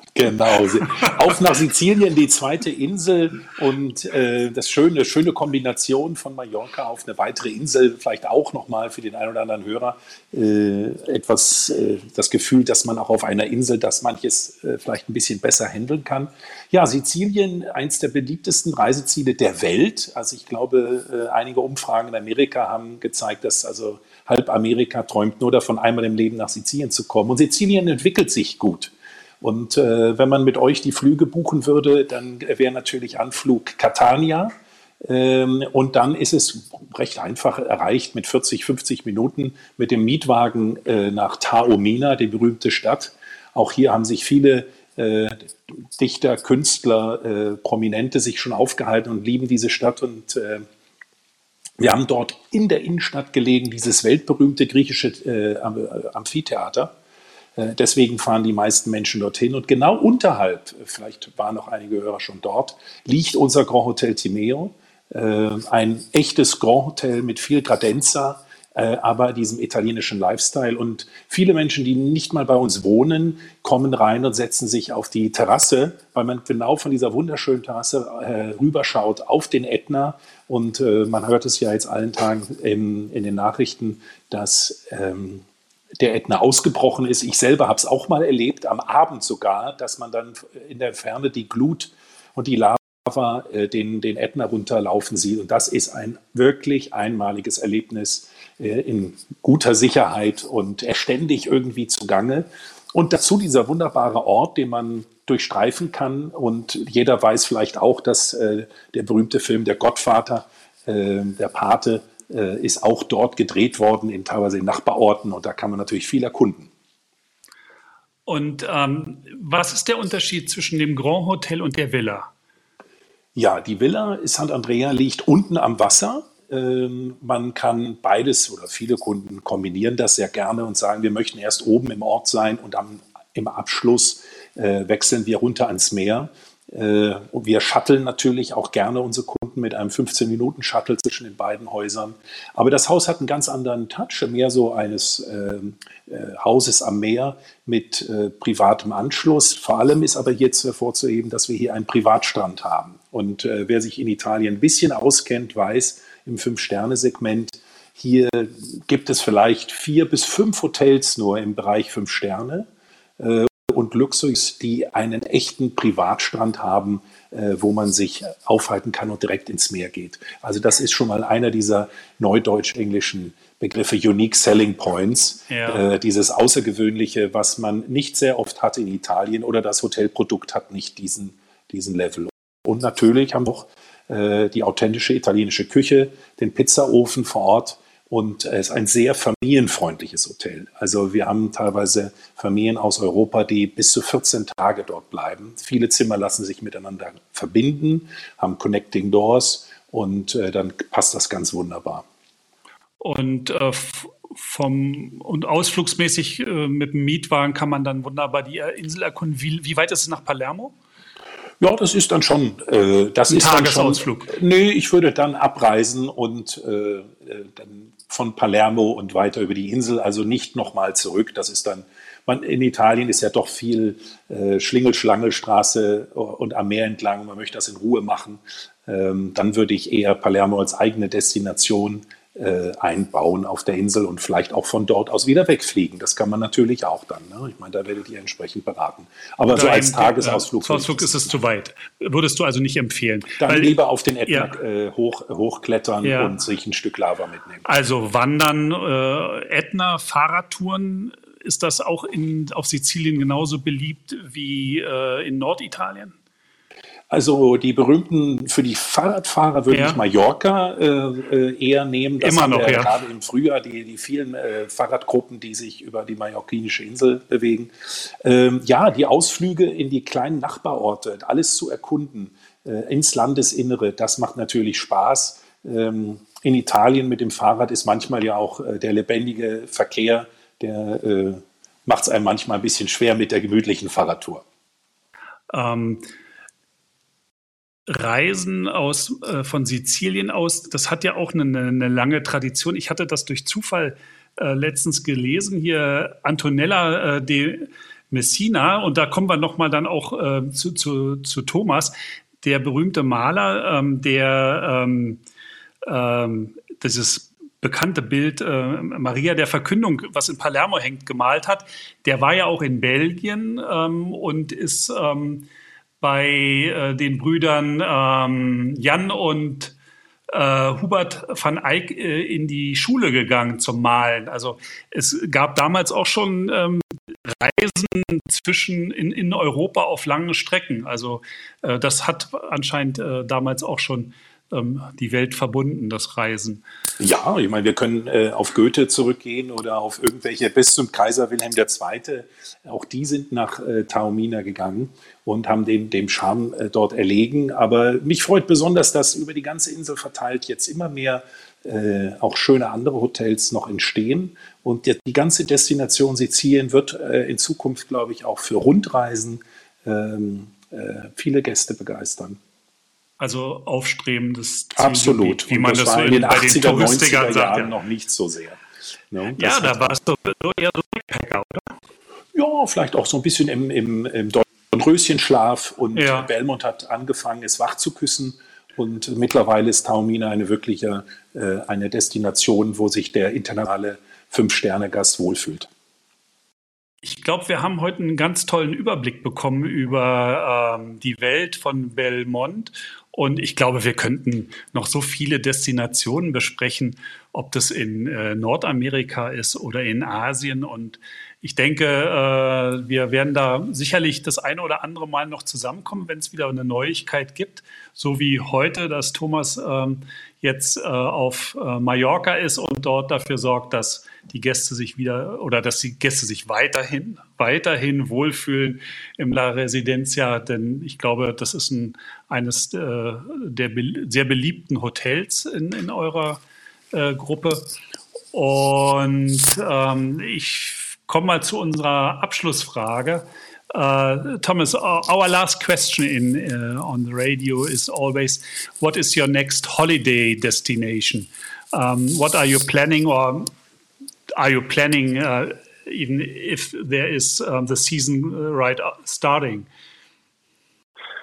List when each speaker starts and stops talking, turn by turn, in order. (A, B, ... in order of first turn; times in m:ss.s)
0:00.1-0:50.6 A
0:00.9-0:01.1 B
0:51.8-0:56.9 A
0:57.6-1:25.4 A
1:26.0-1:56.7 A
1:58.3-2:02.3 B
2:03.3-2:42.7 A
2:43.2-3:22.0 A
2:55.5-2:55.8 B
3:23.0-3:30.7 B
3:31.6-4:01.3 A
3:33.3-3:34.3 B
3:59.5-4:03.7 B
4:03.4-4:07.6 A
4:04.3-4:04.5 B
4:06.0-4:06.3 B
4:07.6-4:16.2 B
4:17.1-4:44.4 A
4:19.7-4:20.0 B
4:22.2-4:22.9 B
4:45.5-4:46.1 B
4:47.9-5:05.2 B
5:05.8-5:15.5 B
5:16.0-5:19.7 B
5:20.3-5:36.6 B
5:37.0-6:02.4 A
6:03.2-6:07.7 B
6:04.7-6:10.0 A
6:09.4-6:11.7 B
6:12.3-6:25.7 A
6:15.9-6:16.3 B
6:27.0-7:06.4 B
7:06.9-7:07.7 B
7:08.3-7:23.5 B
7:24.4-7:29.7 B